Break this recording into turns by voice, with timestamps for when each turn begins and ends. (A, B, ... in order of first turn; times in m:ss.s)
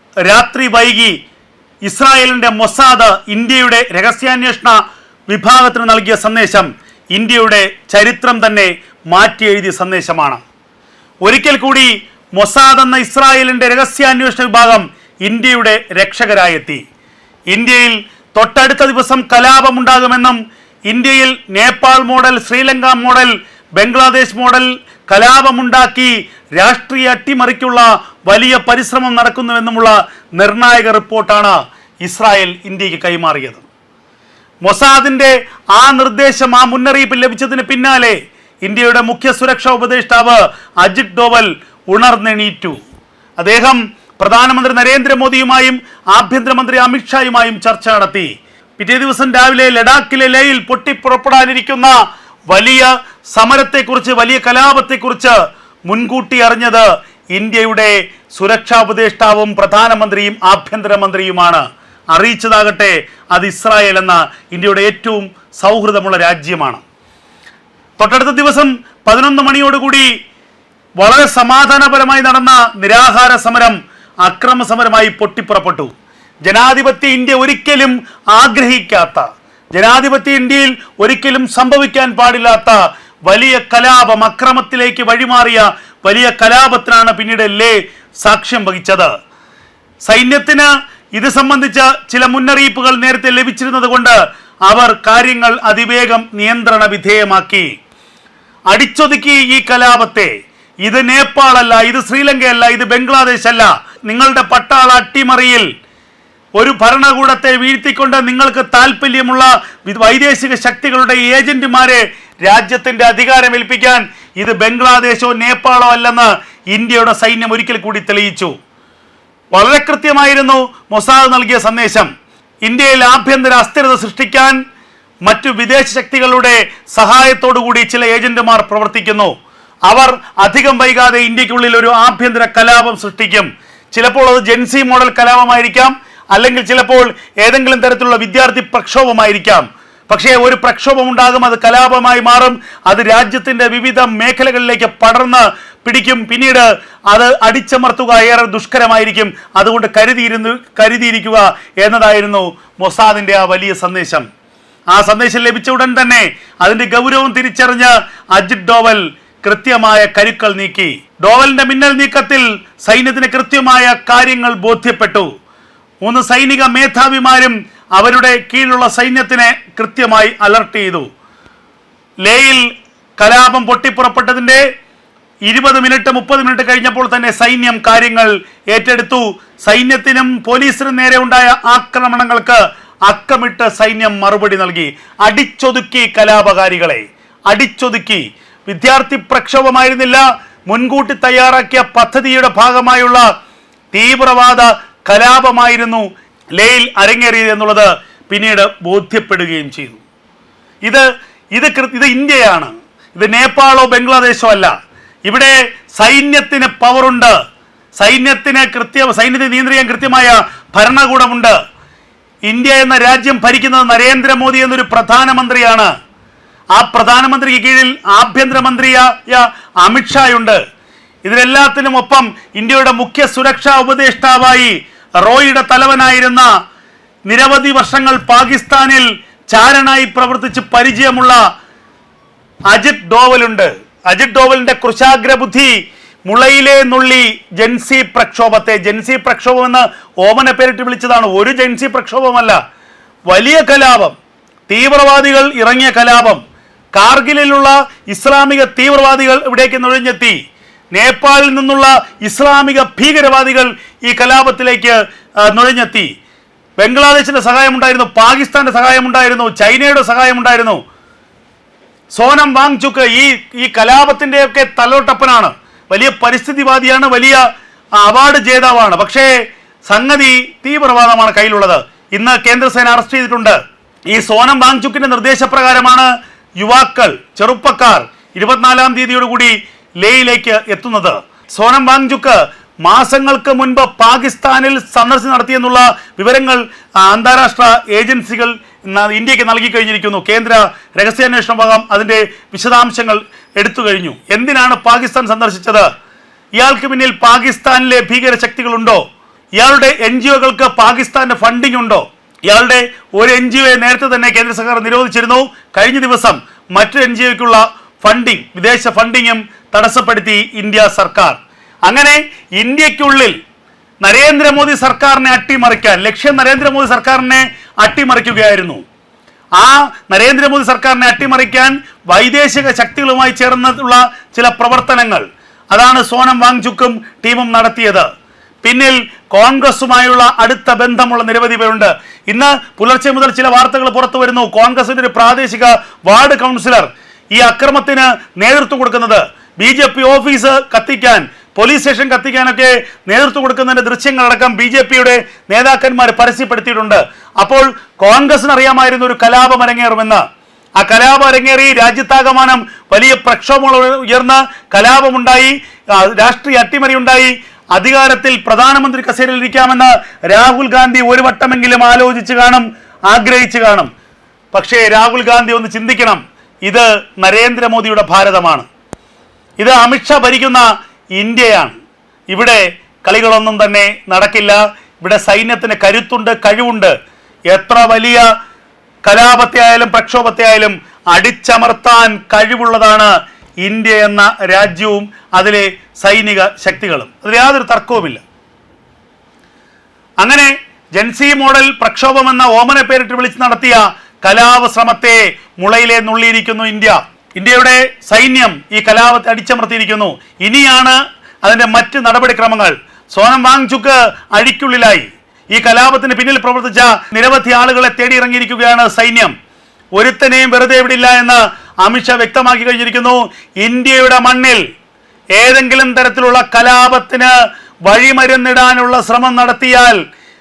0:00.2-0:01.2 A
0:01.8-0:04.8 A
0:05.3-0:10.4 A
0:11.2-0:16.8 A
0:17.5-0:33.6 A
0:34.6-0:42.8 A
0:43.4-0:51.9 A
0:52.5-0:55.4 A
0:55.9-1:06.8 A
1:08.0-1:10.1 A
1:11.0-1:15.9 A
1:16.4-1:29.1 A
1:30.0-1:37.7 A
1:38.7-1:40.3 A
1:40.8-1:45.6 A
1:46.6-1:58.5 A
1:59.5-2:02.1 A
2:02.6-2:04.6 A
2:05.2-2:09.3 A
2:09.8-2:34.2 A
2:34.9-2:45.3 A
2:46.0-2:51.1 A
2:52.2-2:54.6 A
2:55.4-3:13.2 A
3:13.9-3:20.0 A
3:20.8-3:24.7 A
3:25.2-3:27.3 A
3:28.0-3:31.5 A
3:32.5-3:35.9 A
3:36.7-3:40.6 A
3:41.2-3:46.5 A
3:47.3-3:51.4 A
3:52.7-3:55.7 A
3:56.2-4:02.6 A
4:03.3-4:04.1 A
4:04.7-4:06.4 A
4:06.9-4:10.4 A
4:10.9-4:16.1 A
4:16.8-4:20.8 A
4:22.1-4:27.4 A
4:28.0-4:29.3 A
4:29.8-4:33.6 A
4:34.1-4:55.9 A
4:56.6-4:59.0 A
4:59.6-5:13.3 A
5:14.0-5:18.8 A
5:19.6-5:28.1 A
5:28.6-5:50.2 A
5:50.8-6:03.9 A
6:04.5-6:08.6 A
6:09.6-6:10.6 A
6:11.2-6:11.7 A
6:12.3-6:16.9 A
6:17.5-6:18.2 A
6:19.0-6:23.1 A
6:23.6-6:28.2 A
6:30.2-6:49.3 A
6:49.9-6:54.6 A
6:55.3-6:57.3 A
6:57.8-7:00.0 A